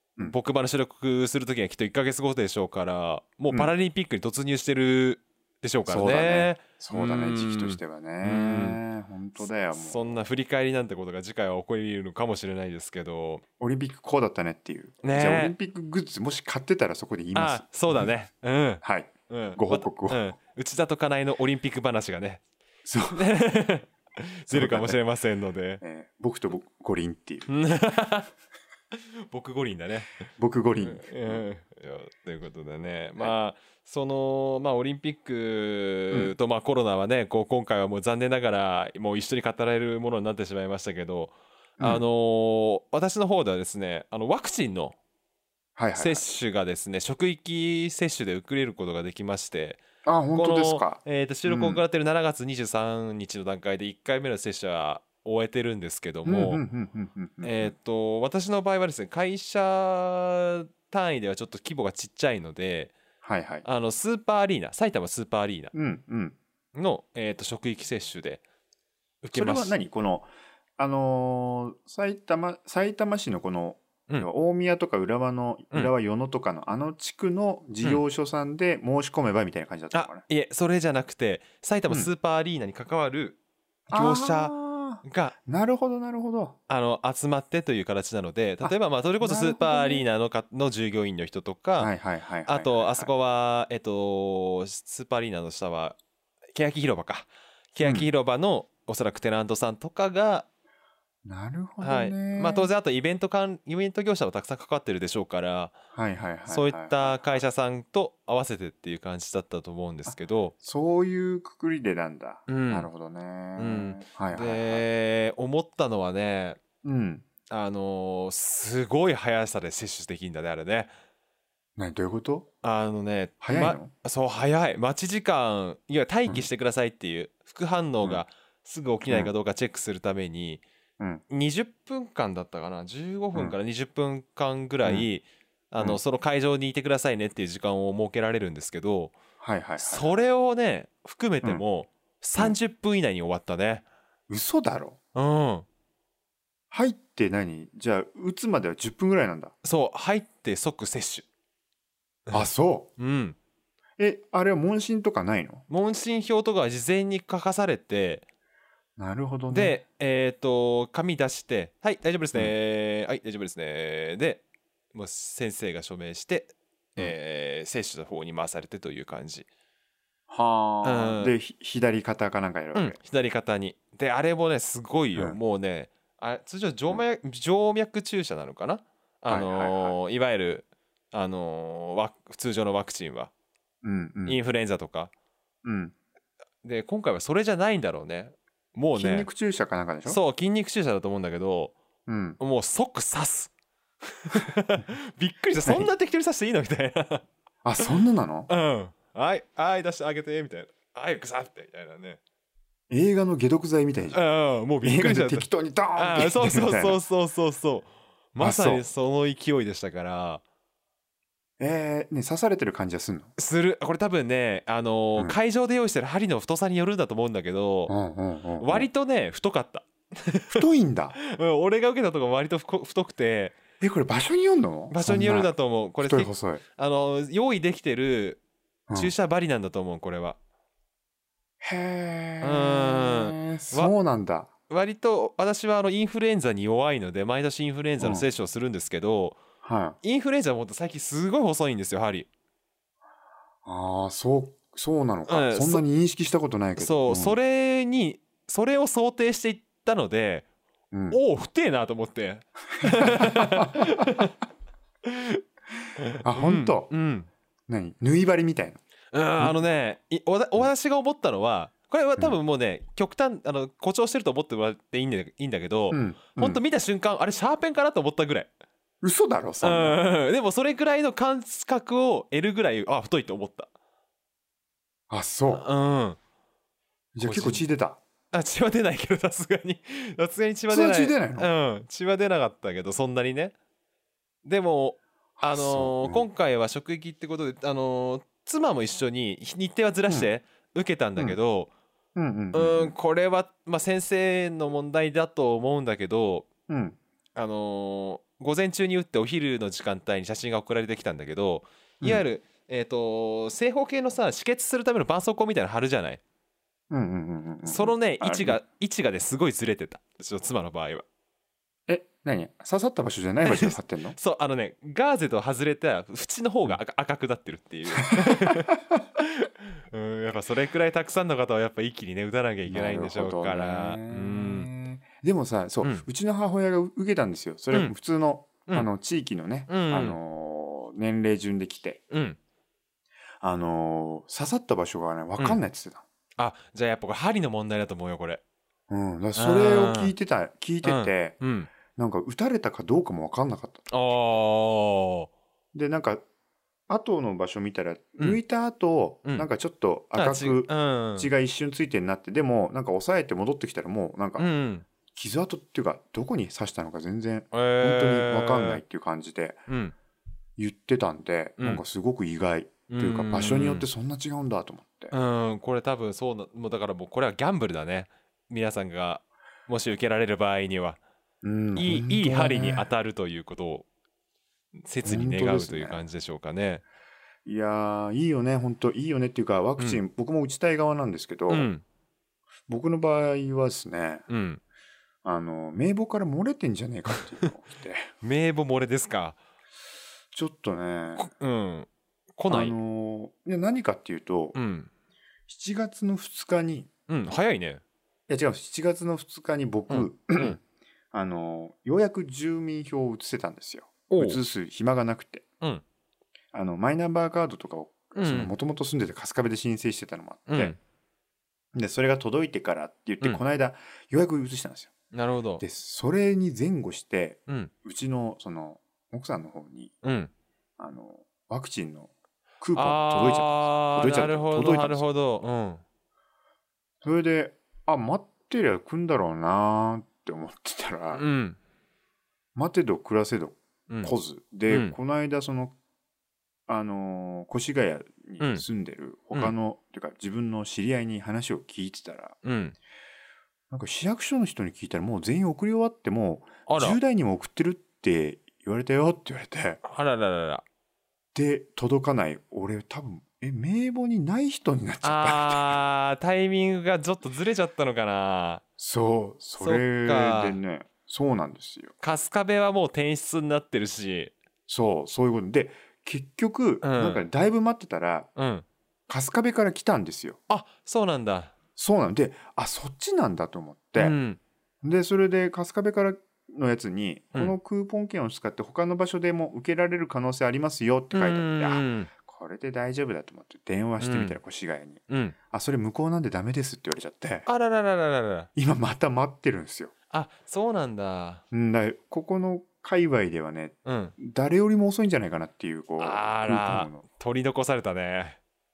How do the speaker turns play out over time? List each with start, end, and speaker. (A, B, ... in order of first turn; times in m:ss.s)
0:00.2-0:08.8 A
0:05.9-0:10.2 B
0:09.7-0:13.4 A
0:13.6-0:18.1 B
0:15.0-0:15.6 A
0:17.3-0:22.4 A
0:18.8-0:20.3 B
0:22.8-0:23.3 B
0:23.1-0:25.8 A
0:24.5-0:25.0 B
0:25.8-0:27.5 B
0:27.5-0:28.3 A
0:29.0-0:30.2 A
0:30.4-0:31.4 B
0:30.8-0:45.0 A
0:45.8-0:46.2 B
0:46.0-0:49.8 A
0:50.0-0:51.8 B
0:50.4-0:56.6 A
0:56.2-0:57.7 B
0:57.4-1:03.0 A
1:03.2-1:03.7 B
1:03.6-1:05.7 A
1:05.7-1:06.4 B
1:06.7-1:08.4 A
1:09.2-1:09.8 A
1:09.3-1:20.2 B
1:19.9-1:23.4 A
1:23.9-1:26.6 B
1:23.9-1:25.4 A
1:26.7-1:31.9 A
1:28.6-1:30.0 B
1:31.8-1:33.1 B
1:32.5-1:36.0 A
1:36.6-1:40.5 A
1:37.8-1:38.1 B
1:41.2-1:42.7 B
1:41.8-1:45.8 A
1:45.9-1:47.4 B
1:46.5-1:50.5 A
1:50.1-1:54.8 B
1:52.5-1:52.9 A
1:53.6-1:56.6 A
1:56.8-1:57.3 B
1:57.5-2:00.9 A
2:01.8-2:02.5 B
2:02.6-2:10.6 A
2:03.4-2:03.9 B
2:11.3-2:19.1 A
2:19.4-2:20.1 B
2:19.8-2:23.8 A
2:24.3-2:25.0 B
2:25.1-2:25.7 A
2:26.7-2:29.6 B
2:29.6-2:31.3 A
2:32.3-2:33.4 A
2:32.3-2:32.9 B
2:34.0-2:35.6 B
2:35.7-2:38.2 A
2:39.0-2:39.8 B
2:39.5-2:49.5 A
2:50.3-2:53.0 B
2:50.8-2:51.3 A
2:52.7-3:03.3 A
2:59.3-3:00.0 B
3:03.8-3:04.4 B
3:04.3-3:05.1 A
3:05.6-3:05.9 B
3:06.6-3:09.3 A
3:09.0-3:10.2 B
3:10.0-3:11.8 A
3:12.1-3:12.4 B
3:12.4-3:13.5 A
3:14.2-3:17.3 A
3:15.6-3:15.9 B
3:17.6-3:18.5 B
3:18.5-3:22.2 A
3:22.9-3:24.2 B
3:24.1-3:30.4 A
3:24.8-3:27.0 B
3:28.4-3:28.8 B
3:31.6-3:33.3 B
3:33.4-3:37.9 A
3:37.9-3:38.9 B
3:38.6-3:40.6 A
3:40.5-3:41.2 B
3:41.2-3:43.6 A
3:43.8-3:46.6 B
3:44.9-3:48.4 A
3:49.0-3:50.4 A
3:51.6-3:54.5 B
3:52.4-3:53.9 A
3:54.7-3:59.4 A
3:59.6-4:00.0 B
4:00.0-4:02.3 A
4:03.6-4:07.4 B
4:05.3-4:05.8 A
4:06.8-4:10.5 A
4:10.9-4:11.2 B
4:11.1-4:14.3 A
4:12.8-4:14.2 B
4:15.0-4:15.4 A
4:16.0-4:17.3 A
4:16.2-4:16.9 B
4:17.7-4:18.8 B
4:19.1-4:28.5 A
4:25.9-4:26.6 B
4:29.0-4:30.0 B
4:29.6-4:33.7 A
4:35.1-4:35.7 B
4:35.5-4:36.2 A
4:37.2-4:38.0 B
4:37.2-4:37.6 A
4:38.3-4:43.5 A
4:40.7-4:41.5 B
4:44.4-4:51.7 A
4:45.4-4:46.3 B
4:52.2-4:53.0 B
4:52.5-4:56.5 A
4:56.7-4:57.0 B
4:57.4-5:06.2 A
5:06.9-5:08.6 B
5:07.6-5:11.0 A
5:11.9-5:14.2 B
5:13.4-5:24.7 A
5:18.2-5:18.6 B
5:22.7-5:32.0 B
5:29.7-5:30.2 A
5:32.1-5:32.4 A
5:33.4-5:36.0 B
5:36.4-5:38.4 A
5:38.9-5:43.9 B
5:39.4-5:40.1 A
5:40.8-5:41.7 A
5:43.9-5:45.3 A
5:45.7-5:46.2 B
5:46.9-5:54.5 B
5:50.2-5:51.3 A
5:54.4-5:54.9 A
5:55.1-5:59.6 B
5:57.5-5:58.8 A
5:59.7-6:00.0 A
6:00.6-6:05.1 B
6:02.9-6:03.9 A
6:05.1-6:11.0 A
6:11.4-6:12.9 B
6:11.8-6:13.9 A
6:14.8-6:16.8 A
6:15.0-6:16.0 B
6:17.4-6:21.7 B
6:21.5-6:21.8 A
6:22.7-6:24.2 B
6:24.3-6:24.6 A
6:25.2-6:28.1 B
6:28.2-6:29.4 A
6:30.3-6:31.3 B
6:31.2-6:32.8 A
6:32.5-6:34.6 B
6:34.6-6:34.9 A
6:35.5-6:36.9 B
6:37.1-6:37.8 A
6:38.3-6:40.6 B
6:39.9-6:40.6 A
6:41.1-6:45.5 B
6:44.1-6:44.4 A
6:46.5-6:50.8 B
6:48.2-6:48.5 A
6:50.5-6:50.8 A
6:51.7-6:54.9 B
6:55.1-6:55.6 A
6:55.6-7:00.0 B
7:00.0-7:00.3 A
7:00.8-7:05.0 B
7:02.8-7:05.8 A
7:07.0-7:11.2 B
7:11.1-7:11.6 A
7:12.6-7:15.7 B
7:13.9-7:14.2 A
7:14.7-7:15.0 A
7:16.7-7:22.4 B
7:18.4-7:18.6 A
7:22.4-7:22.8 A
7:23.7-7:29.8 B
7:26.7-7:27.0 A
7:29.8-7:30.6 A
7:31.3-7:35.8 B
7:35.0-7:38.6 A
7:38.8-7:41.9 B
7:39.6-7:40.6 A
7:42.0-7:44.3 A
7:44.7-7:48.3 B
7:46.8-7:47.2 A
7:48.4-7:48.6 A
7:49.1-7:50.4 B
7:50.5-7:51.5 A
7:51.8-7:54.2 B
7:54.0-7:54.4 A
7:54.8-8:07.5 B
8:01.1-8:02.1 A
8:04.0-8:04.4 A
8:05.1-8:05.4 A
8:07.5-8:08.5 A
8:08.6-8:09.9 B
8:10.1-8:11.4 A
8:11.5-8:17.0 B
8:13.8-8:14.2 A
8:16.0-8:18.4 A